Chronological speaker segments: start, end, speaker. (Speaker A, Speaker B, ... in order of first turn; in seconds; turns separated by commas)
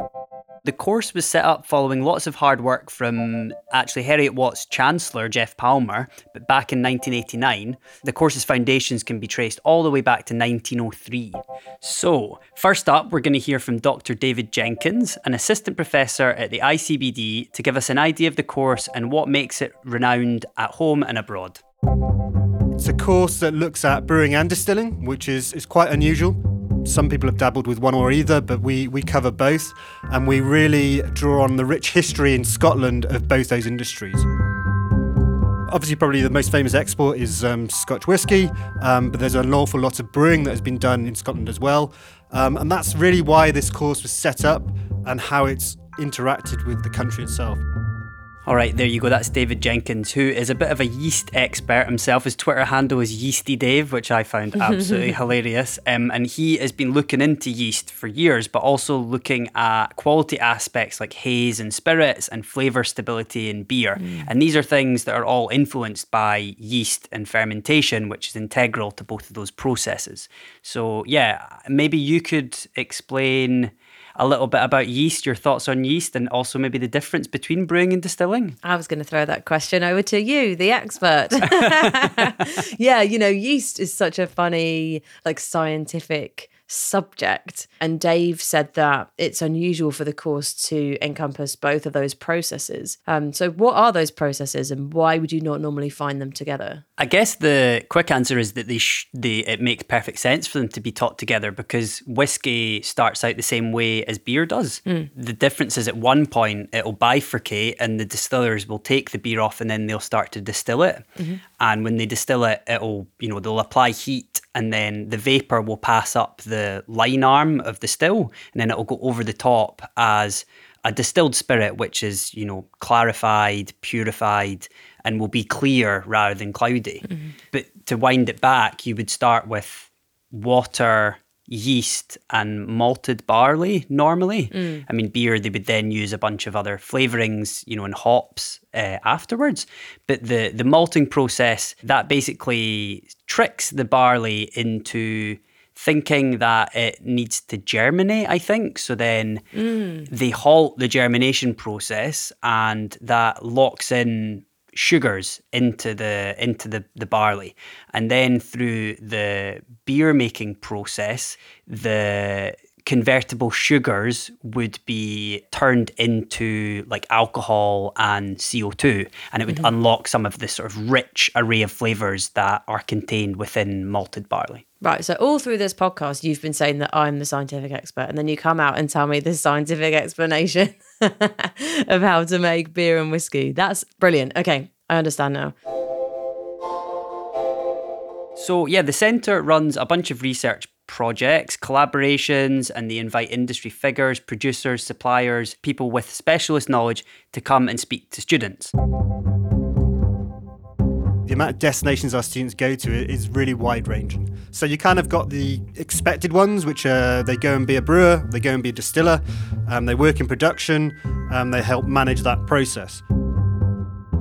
Speaker A: 0.7-21.6, Speaker B: 22.8-34.3, Speaker B: 35.7-47.6, Speaker A: 48.5-78.6, Speaker C: 54.6-55.1, Speaker C: 64.0-64.3, Speaker C: 78.6-96.8, Speaker A: 97.0-111.0, Speaker A: 111.6-149.4, Speaker C: 134.5-134.8, Speaker C: 149.5-150.1, Speaker A: 150.1-174.6, Speaker C: 174.8-185.6, Speaker A: 188.4-198.7, Speaker B: 201.3-213.0